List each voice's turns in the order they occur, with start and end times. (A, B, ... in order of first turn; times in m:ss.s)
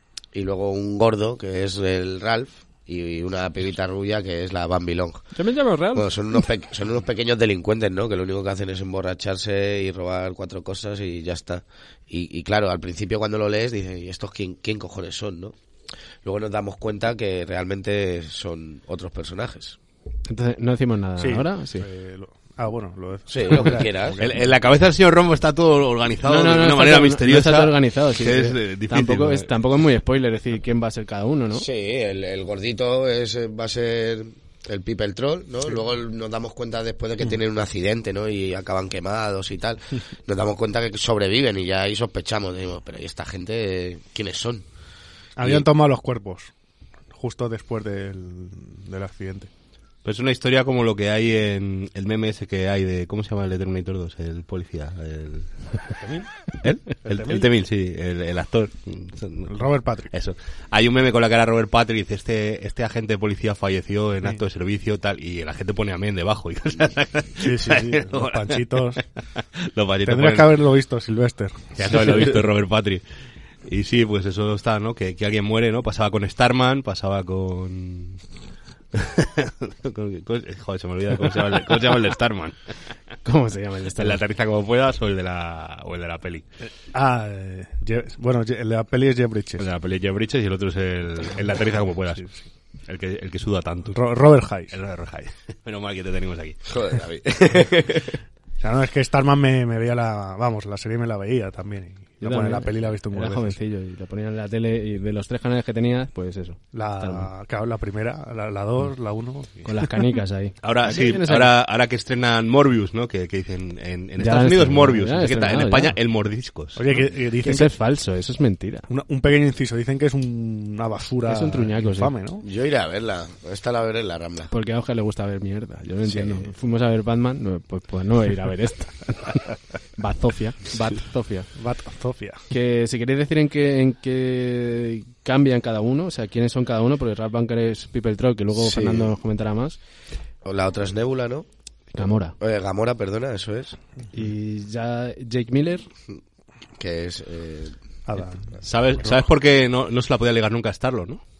0:00.3-0:05.3 A
0:05.3-0:06.4 B
0:05.9-0:15.5 A
0:16.2-0:19.8 A
0:20.2-0:21.8 B
0:21.2-0:24.4 C
0:23.3-0:24.2 A
0:24.2-0:29.5 D
0:26.2-0:31.6 B
0:31.5-0:44.6 A
0:45.4-0:46.5 C
0:47.1-0:49.5 C
0:50.0-0:55.5 D
0:56.0-0:56.3 C
0:56.6-1:09.0 D
0:57.0-0:57.4 C
0:59.5-1:00.1 C
1:07.4-1:09.0 C
1:09.6-1:10.6 D
1:10.0-1:12.3 C
1:11.8-1:13.0 D
1:13.6-1:18.2 D
1:18.9-1:22.6 D
1:23.2-1:24.2 B
1:24.0-1:26.4 D
1:26.9-1:29.6 C
1:29.6-1:32.2 D
1:32.9-1:34.0 D
1:33.9-1:34.7 C
1:34.7-1:36.7 D
1:36.7-1:38.2 A
1:38.6-1:43.6 C
1:42.2-1:47.3 B
1:46.7-1:50.0 C
1:49.6-1:51.5 B
1:50.6-1:56.8 D
1:54.2-1:55.9 B
1:56.8-1:57.7 C
1:57.4-1:58.9 B
1:58.9-2:02.4 C
2:01.2-2:02.1 B
2:02.4-2:04.5 A
2:04.5-2:11.5 B
2:06.1-2:06.5 A
2:11.6-2:12.4 C
2:12.5-2:19.8 B
2:18.5-2:19.1 A
2:20.4-2:21.4 A
2:21.9-2:22.4 B
2:22.4-2:23.8 A
2:24.1-2:25.9 B
2:26.8-2:27.7 A
2:28.1-2:28.5 C
2:28.6-2:31.2 D